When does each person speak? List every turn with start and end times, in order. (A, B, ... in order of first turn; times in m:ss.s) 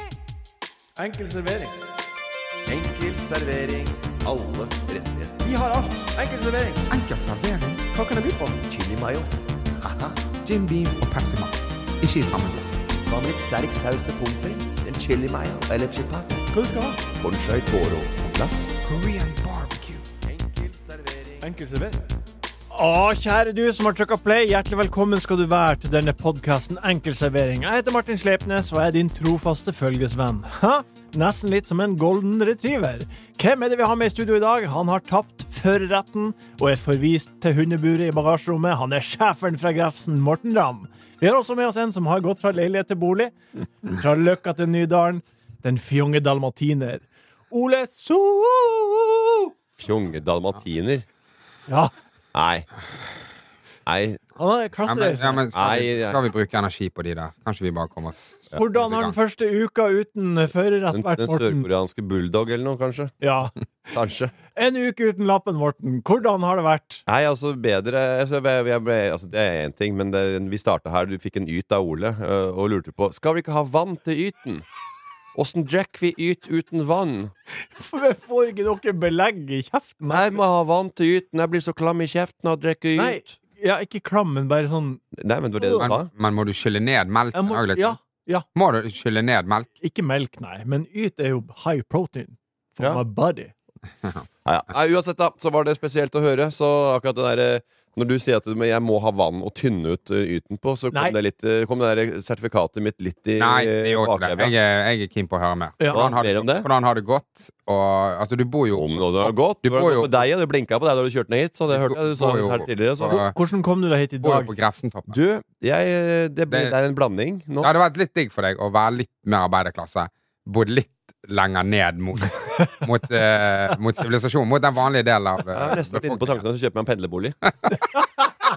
0:01.0-0:01.8 A
0:02.7-0:05.4 B
0:05.4-0:06.9 A
0:06.9-0:07.9 C
0:08.0-0:10.2 B
0:10.4-0:12.8 C
0:13.0-0:16.4 B
0:16.5-0:17.0 A
0:17.1-0:18.8 B
0:18.8-0:20.0 C
0:20.2-0:21.4 B
0:21.4-0:22.1 A
0:22.7-0:49.5 A
0:49.8-0:51.0 B
0:52.3-0:52.7 B
0:53.8-0:54.2 B
0:54.4-0:55.4 A
0:54.9-0:59.2 C
0:55.5-0:56.2 B
0:58.5-1:01.6 A
1:00.9-1:03.2 B
1:03.2-1:03.5 A
1:03.9-1:04.3 B
1:04.5-1:07.0 A
1:07.1-1:14.6 B
1:15.3-1:17.3 B
1:17.6-1:20.4 A
1:20.1-1:23.3 B
1:23.0-1:25.0 A
1:25.1-1:26.1 B
1:25.6-1:25.9 A
1:25.8-1:28.0 C
1:27.3-1:28.4 A
1:28.5-1:29.7 C
1:29.8-1:33.5 A
1:34.4-1:44.5 B
1:40.9-1:41.2 A
1:43.4-1:50.1 C
1:45.8-1:46.1 A
1:46.2-1:46.7 B
1:48.7-1:53.2 B
1:51.7-1:53.4 C
1:53.1-1:54.5 A
1:54.2-1:55.2 C
1:55.1-1:57.7 B
1:56.5-1:56.7 C
1:57.6-2:06.4 C
2:05.5-2:07.4 B